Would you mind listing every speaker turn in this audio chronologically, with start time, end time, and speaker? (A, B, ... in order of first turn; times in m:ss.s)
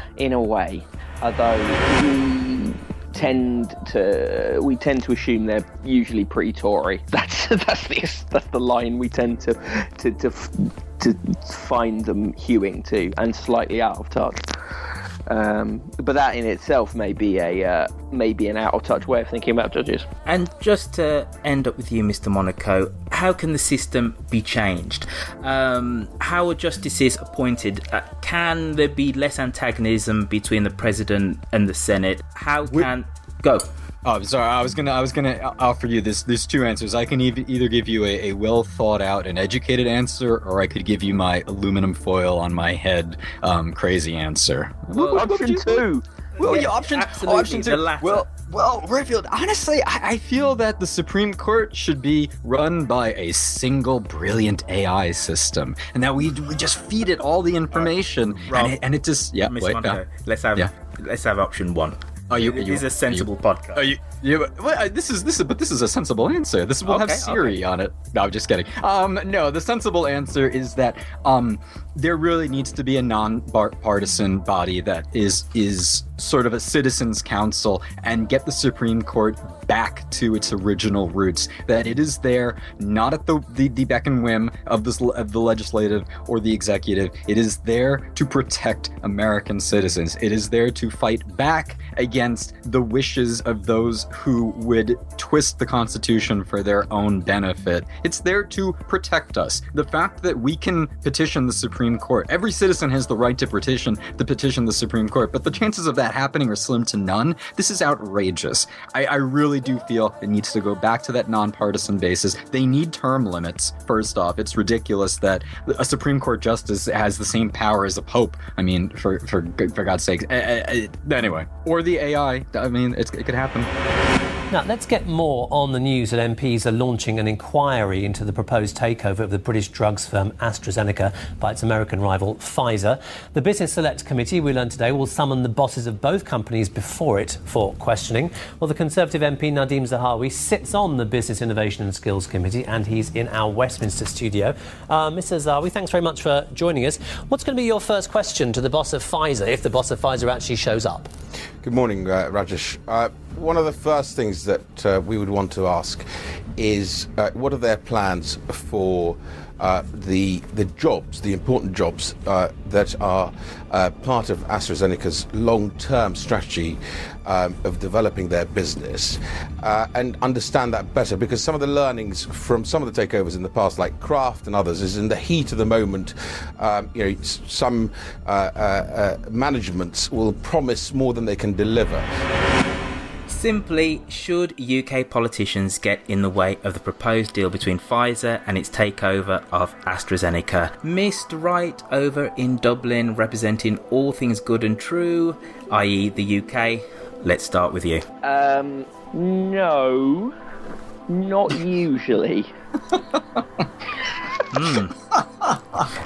0:00.2-0:14.4 A
0:15.3-0:20.0 A
0:20.2-0:33.6 B
0:34.0-0:45.8 C
0:44.9-0:45.3 B
0:45.1-0:46.0 A
0:46.4-0:48.2 B
0:46.4-1:00.0 C
0:58.5-0:58.8 B
0:59.4-1:03.9 B
1:02.3-2:03.7 C
1:06.8-1:07.6 B
2:04.5-2:31.1 D
2:31.6-2:36.0 E
2:36.6-3:02.1 E
3:03.3-3:18.0 B
3:18.2-3:20.3 A
3:21.1-3:22.5 A
3:24.5-3:25.0 B